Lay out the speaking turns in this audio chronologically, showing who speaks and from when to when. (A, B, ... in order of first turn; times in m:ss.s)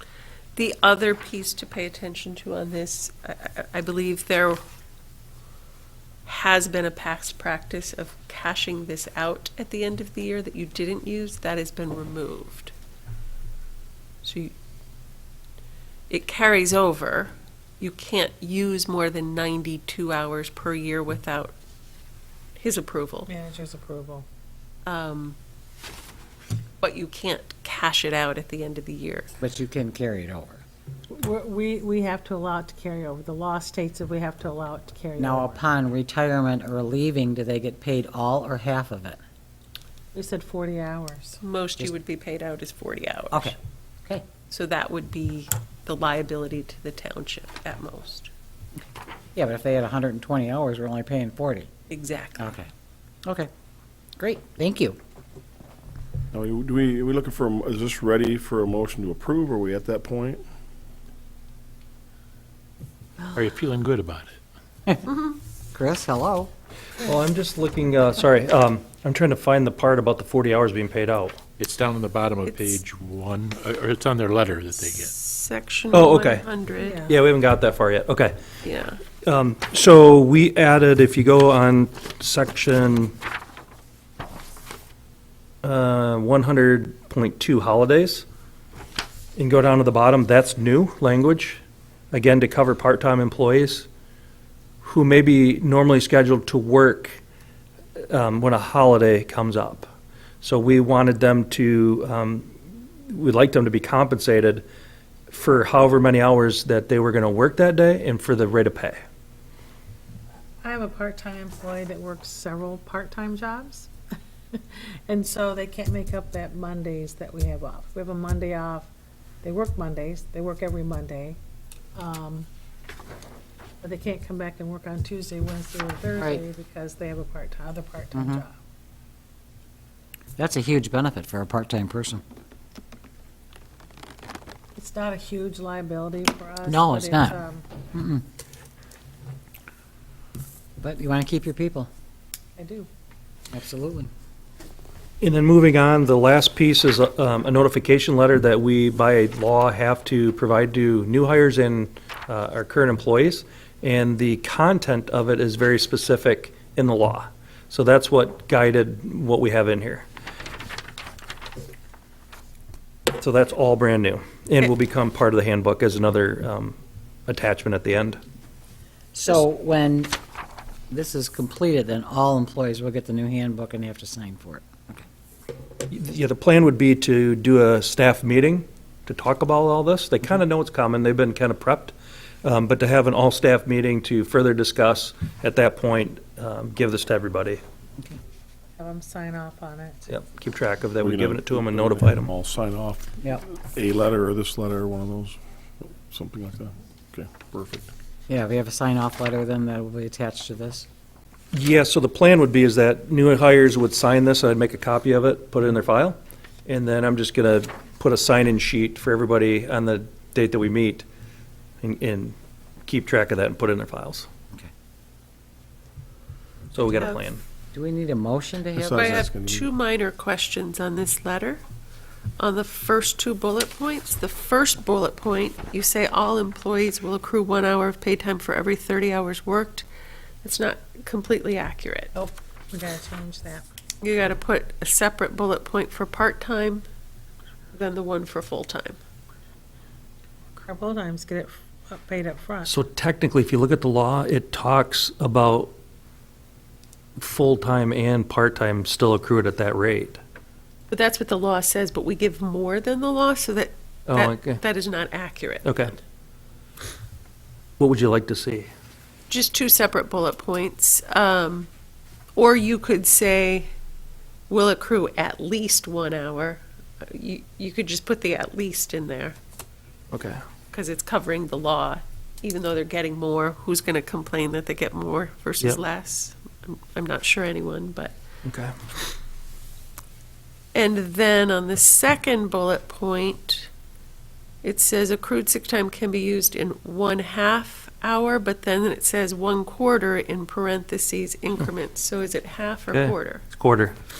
0:00.6-0:04.6 A
0:06.2-0:12.7 A
0:14.2-0:14.5 A
0:16.1-0:21.5 A
0:22.6-0:23.3 A
0:23.3-0:24.2 B
0:24.8-0:25.4 A
0:26.8-0:29.3 A
0:29.4-0:30.6 C
0:31.1-0:35.6 B
0:35.2-0:39.2 C
0:40.1-0:41.4 B
0:41.4-0:43.6 A
0:43.3-0:44.2 C
0:44.5-0:48.3 A
0:49.3-0:51.7 C
0:51.9-0:52.5 A
0:52.4-0:52.7 C
0:54.2-0:55.0 C
0:56.3-1:00.4 D
1:03.3-1:04.4 E
1:05.7-1:06.5 C
1:07.0-1:11.4 F
1:11.6-1:15.1 E
1:12.4-1:12.8 A
1:14.8-1:17.0 A
1:15.9-1:16.4 F
1:16.8-1:17.2 B
1:17.0-1:18.4 F
1:18.6-1:19.0 A
1:19.2-1:23.2 F
1:25.6-1:28.2 F
1:29.4-1:33.9 F
1:34.8-1:37.2 F
1:38.1-1:39.9 F
1:40.4-1:42.5 F
1:43.0-1:44.6 F
1:45.3-1:49.0 F
1:50.6-1:53.9 B
1:54.5-1:58.9 B
1:59.4-2:01.4 B
2:01.9-2:02.5 B
2:03.8-2:08.6 B
2:06.2-2:06.4 C
2:08.1-2:08.4 C
2:10.4-2:12.2 C
2:14.8-2:17.7 B
2:16.6-2:17.4 C
2:17.9-2:18.2 C
2:20.8-2:21.9 C
2:22.6-2:22.9 B
2:23.5-2:24.1 C
2:25.2-2:40.0 F
2:43.1-2:48.2 F
2:49.1-2:50.2 C
2:50.9-2:55.0 C
2:55.9-3:07.6 F
3:08.8-3:10.0 B
3:10.1-3:12.3 F
3:11.0-3:17.9 D
3:18.3-3:20.9 C
3:21.5-3:31.0 F
3:31.8-3:32.3 F
3:32.8-3:34.3 F
3:36.7-3:37.4 F
3:37.7-3:39.3 C
3:38.8-3:39.7 D
3:38.9-3:41.6 A
3:42.4-3:49.8 A
3:50.4-3:52.1 A
3:52.1-3:53.6 B
3:54.0-3:56.8 A
3:57.7-3:59.0 A
4:00.6-4:02.7 B
4:02.6-4:05.7 F
4:07.2-4:10.2 F
4:10.9-4:15.9 A
4:14.1-4:14.6 F
4:15.6-4:15.9 F
4:17.8-4:18.7 F
4:19.3-4:21.7 A
4:22.4-4:23.7 A
4:24.5-4:29.4 A
4:30.1-4:30.4 F
4:30.7-4:38.2 A
4:38.4-4:38.8 F
4:40.7-4:43.7 A
4:44.6-4:53.4 A
4:52.9-4:54.0 F